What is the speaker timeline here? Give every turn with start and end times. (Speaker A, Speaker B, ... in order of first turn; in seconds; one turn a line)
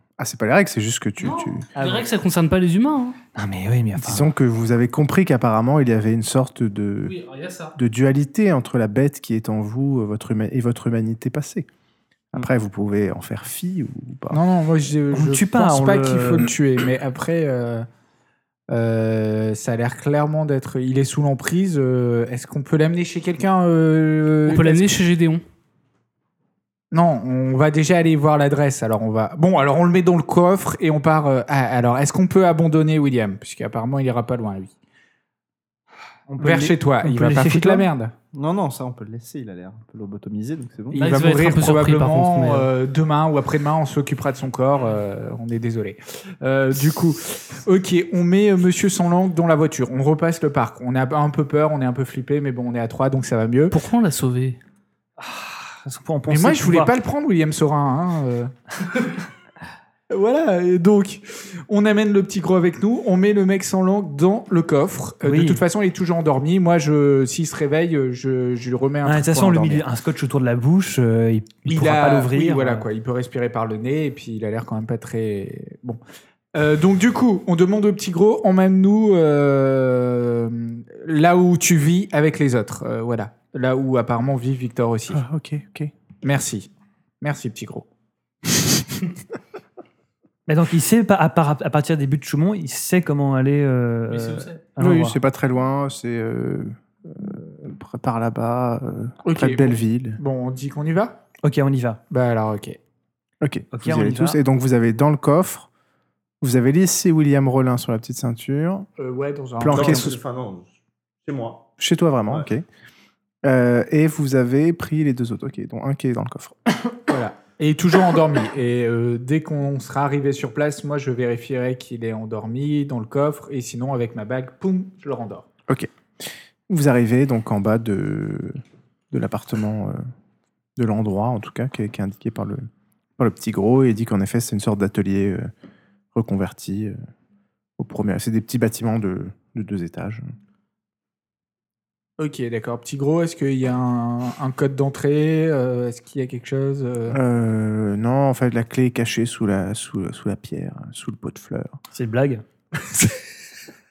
Speaker A: 0.2-1.7
Speaker B: 1.2-3.2
Speaker C: 1.8-2.1
Speaker C: 3.3-4.3
Speaker A: 4.0-7.1
Speaker B: 7.0-7.8
Speaker A: 7.7-11.7
Speaker A: 12.3-14.4
Speaker D: 14.3-17.9
Speaker C: 15.1-16.5
Speaker D: 18.7-24.9
Speaker B: 24.4-25.4
Speaker D: 26.9-34.7
Speaker C: 36.3-37.9
Speaker D: 36.4-38.1
Speaker E: 38.3-41.0
Speaker B: 40.9-42.7
Speaker D: 40.9-53.7
Speaker B: 53.7-54.6
Speaker C: 55.2-56.9
Speaker D: 56.3-58.5
Speaker D: 60.1-69.8
Speaker C: 65.2-65.6
Speaker C: 69.0-72.8
Speaker D: 71.7-76.0
Speaker D: 76.5-85.2
Speaker A: 85.1-85.9
Speaker D: 86.2-86.7
Speaker D: 87.2-87.8
Speaker C: 90.5-95.2
Speaker B: 94.1-94.6
Speaker A: 94.8-100.2
Speaker D: 99.2-101.2
Speaker C: 101.4-102.0
Speaker D: 102.1-102.8
Speaker A: 103.4-105.7
Speaker C: 103.7-104.4
Speaker A: 106.4-108.9
Speaker D: 109.0-110.1
Speaker A: 109.6-110.2
Speaker E: 109.7-111.7
Speaker A: 111.8-112.7
Speaker A: 113.4-116.5
Speaker D: 117.1-125.5
Speaker A: 125.7-130.1
Speaker A: 130.8-135.5
Speaker A: 136.1-136.9
Speaker A: 137.8-140.3
Speaker D: 142.2-147.2
Speaker A: 147.1-151.8
Speaker C: 151.9-152.4